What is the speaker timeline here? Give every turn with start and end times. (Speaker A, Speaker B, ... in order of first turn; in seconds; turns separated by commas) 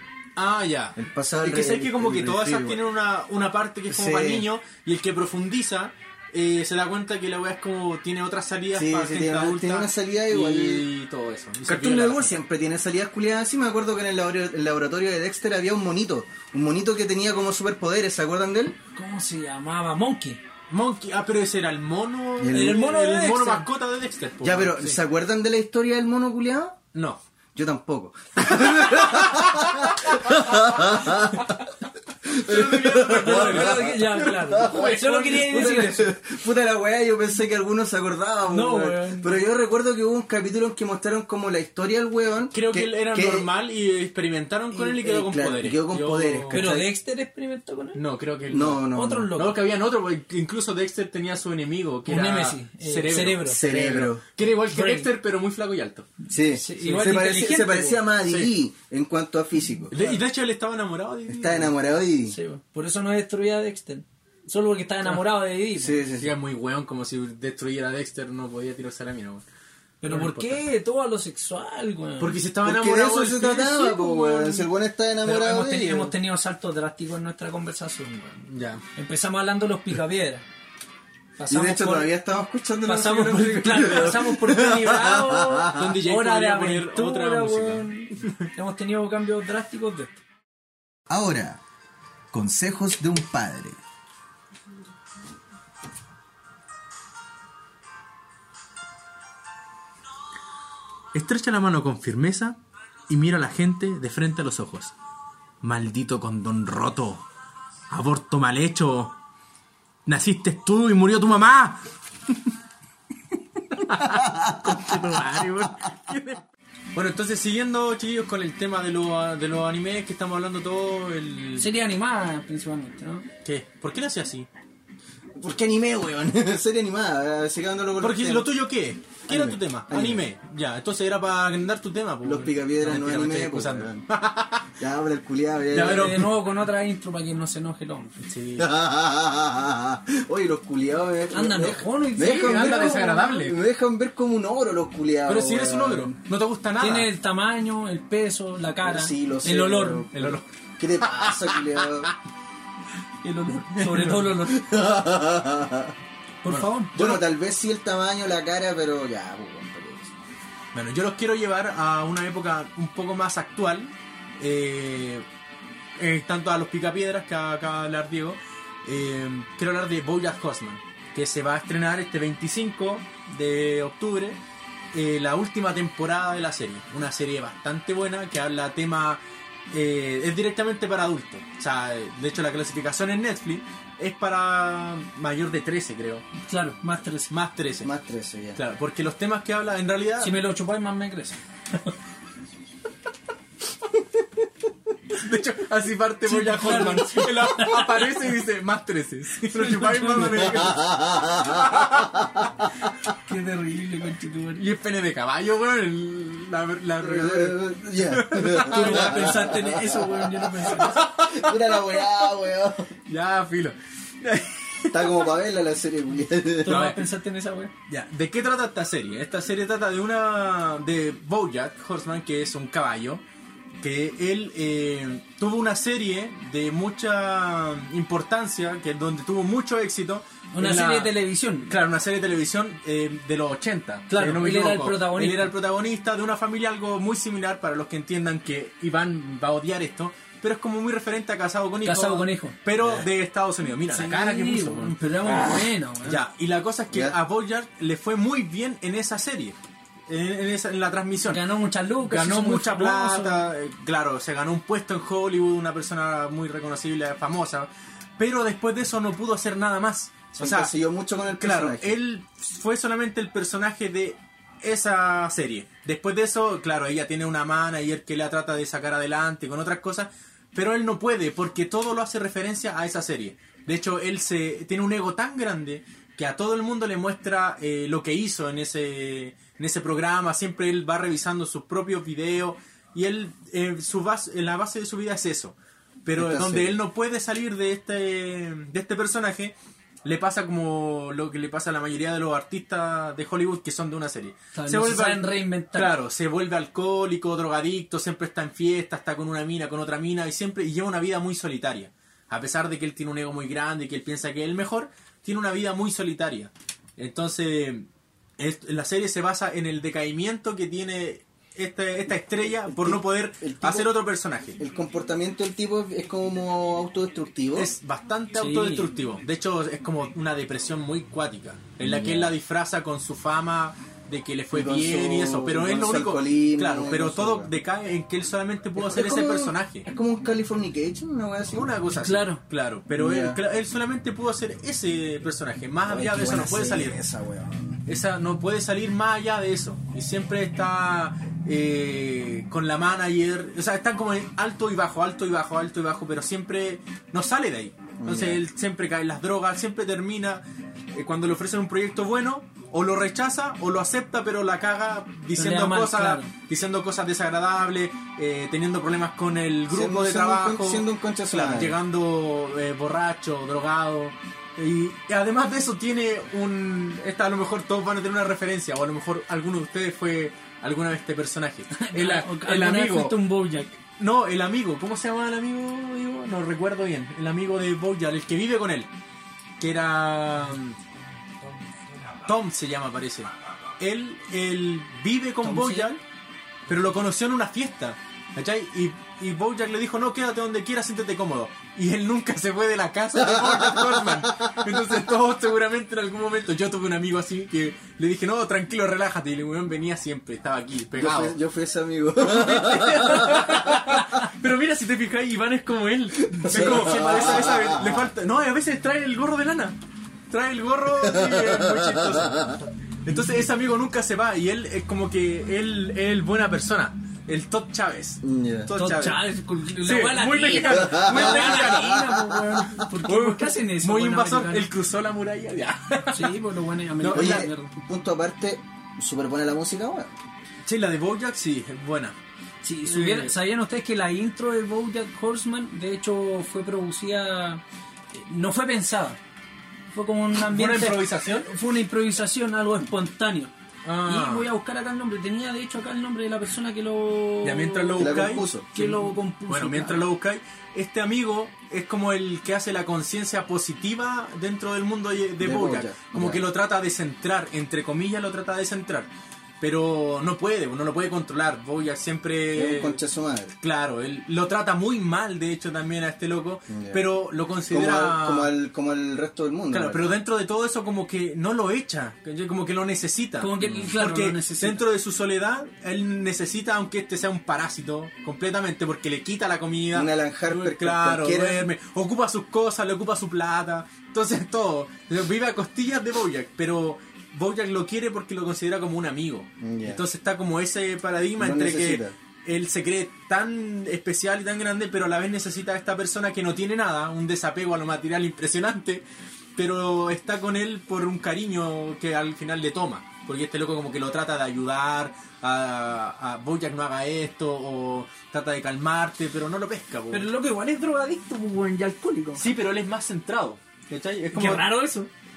Speaker A: 0.3-12.4, Speaker B: 1.0-2.8, Speaker B: 3.9-4.4, Speaker B: 8.7-10.8, Speaker B: 11.7-18.8, Speaker C: 18.9-20.4, Speaker A: 20.7-25.0, Speaker B: 22.4-22.8, Speaker C: 22.5-23.7, Speaker B: 24.4-26.8, Speaker A: 26.9-27.2, Speaker B: 27.5-31.6, Speaker A: 28.4-29.8, Speaker B: 32.3-43.5, Speaker A: 32.4-35.9, Speaker C: 33.1-36.1, Speaker C: 38.5-39.3, Speaker A: 42.5-46.6, Speaker B: 44.7-46.9, Speaker C: 46.5-48.0, Speaker A: 47.9-56.1, Speaker B: 48.5-49.3, Speaker C: 48.9-49.6, Speaker C: 52.0-53.6, Speaker B: 53.4-54.2, Speaker C: 54.7-55.1, Speaker B: 56.3-60.0, Speaker C: 56.5-58.1, Speaker A: 56.8-57.3, Speaker A: 58.3-58.5, Speaker A: 59.9-61.7, Speaker B: 61.3-62.4, Speaker C: 62.3-66.0, Speaker B: 65.8-66.3, Speaker A: 66.2-69.4, Speaker C: 70.0-72.4, Speaker A: 70.1-70.6, Speaker A: 72.2-74.3, Speaker B: 72.6-76.1, Speaker C: 74.0-74.6, Speaker C: 75.2-78.4, Speaker A: 78.5-78.8, Speaker C: 79.0-80.4, Speaker C: 81.4-82.2, Speaker B: 81.5-86.0, Speaker C: 82.8-90.2, Speaker A: 85.8-88.4, Speaker B: 91.1-91.6, Speaker B: 92.3-93.8, Speaker A: 101.1-104.9, Speaker A: 105.6-107.2, Speaker A: 107.9-109.2, Speaker A: 110.0-111.8, Speaker A: 113.8-116.4, Speaker B: 114.0-115.2, Speaker A: 116.9-121.7, Speaker C: 121.6-123.3, Speaker A: 123.4-124.5, Speaker B: 125.4-128.5, Speaker A: 128.0-134.7, Speaker B: 129.3-130.2, Speaker B: 132.2-134.0, Speaker B: 134.8-136.2, Speaker A: 135.7-136.3, Speaker C: 135.7-138.1, Speaker A: 138.2-138.7, Speaker B: 138.6-146.1, Speaker C: 141.3-143.4, Speaker A: 142.2-143.6, Speaker A: 145.2-147.1, Speaker C: 146.8-150.1, Speaker B: 148.8-152.1, Speaker A: 150.1-150.4, Speaker A: 151.0-151.6, Speaker C: 153.2-154.6, Speaker A: 153.8-154.1, Speaker B: 154.4-155.9, Speaker C: 156.4-157.0, Speaker A: 156.4-157.2, Speaker B: 156.9-160.1, Speaker A: 160.7-165.2, Speaker A: 166.0-174.4, Speaker A: 174.9-186.3, Speaker C: 186.4-187.3, Speaker A: 187.3-187.9, Speaker B: 187.8-188.6, Speaker A: 188.6-190.3, Speaker C: 190.2-191.4, Speaker A: 195.2-202.1, Speaker C: 196.2-198.0, Speaker C: 199.6-200.5, Speaker B: 200.6-201.6, Speaker C: 203.3-204.6, Speaker A: 204.6-209.5, Speaker B: 207.0-212.9, Speaker C: 208.7-211.0, Speaker A: 211.0-211.8, Speaker A: 213.1-215.3, Speaker B: 214.9-216.8, Speaker C: 216.6-217.7, Speaker A: 216.7-217.0, Speaker A: 217.9-223.2, Speaker A: 223.8-231.1, Speaker C: 230.5-231.7, Speaker A: 231.7-245.3, Speaker C: 234.1-235.5, Speaker C: 241.8-242.6, Speaker C: 243.9-246.2, Speaker A: 246.0-249.6, Speaker A: 250.1-251.4, Speaker C: 251.3-253.4, Speaker A: 252.0-260.7, Speaker B: 260.4-261.9, Speaker A: 261.4-307.9, Speaker B: 286.2-286.7, Speaker C: 294.5-295.9, Speaker A: 308.4-314.6, Speaker B: 312.7-313.9, Speaker B: 314.6-317.7, Speaker A: 317.5-329.9, Speaker C: 318.3-318.9, Speaker B: 321.8-322.3, Speaker B: 324.5-327.5, Speaker B: 328.8-331.7, Speaker A: 331.5-337.0, Speaker C: 332.0-332.4, Speaker B: 332.9-333.4, Speaker B: 335.9-337.8, Speaker A: 337.9-350.4, Speaker B: 348.0-348.4, Speaker A: 350.9-373.2, Speaker C: 355.3-356.3, Speaker B: 359.7-361.8, Speaker C: 371.7-373.8, Speaker A: 374.0-378.9, Speaker A: 379.6-380.8, Speaker A: 382.2-386.0, Speaker C: 385.4-385.9, Speaker A: 386.7-401.4, Speaker B: 393.2-394.5, Speaker B: 400.9-404.1, Speaker A: 402.2-409.8, Speaker B: 406.3-408.1, Speaker A: 410.3-419.2, Speaker B: 411.1-412.5, Speaker B: 418.2-418.7, Speaker C: 418.7-424.7, Speaker A: 419.8-422.1, Speaker B: 420.7-422.7, Speaker A: 423.1-426.3, Speaker C: 426.1-427.7, Speaker A: 427.0-427.4, Speaker B: 427.1-430.1, Speaker A: 430.6-432.1, Speaker C: 432.6-437.6, Speaker A: 432.9-433.3, Speaker C: 438.1-439.2, Speaker C: 439.9-443.5, Speaker A: 440.4-441.5, Speaker A: 443.8-444.5, Speaker C: 444.0-450.0, Speaker A: 447.4-463.0, Speaker B: 448.0-448.7, Speaker B: 455.4-456.4, Speaker B: 462.5-463.5, Speaker A: 463.6-468.5, Speaker B: 466.7-467.0, Speaker B: 467.7-470.1, Speaker A: 469.7-499.0, Speaker C: 473.4-474.8, Speaker B: 479.9-481.6, Speaker B: 489.6-490.0, Speaker B: 491.4-492.1, Speaker A: 499.6-510.3, Speaker C: 510.1-512.4, Speaker A: 512.4-514.7, Speaker C: 514.3-515.1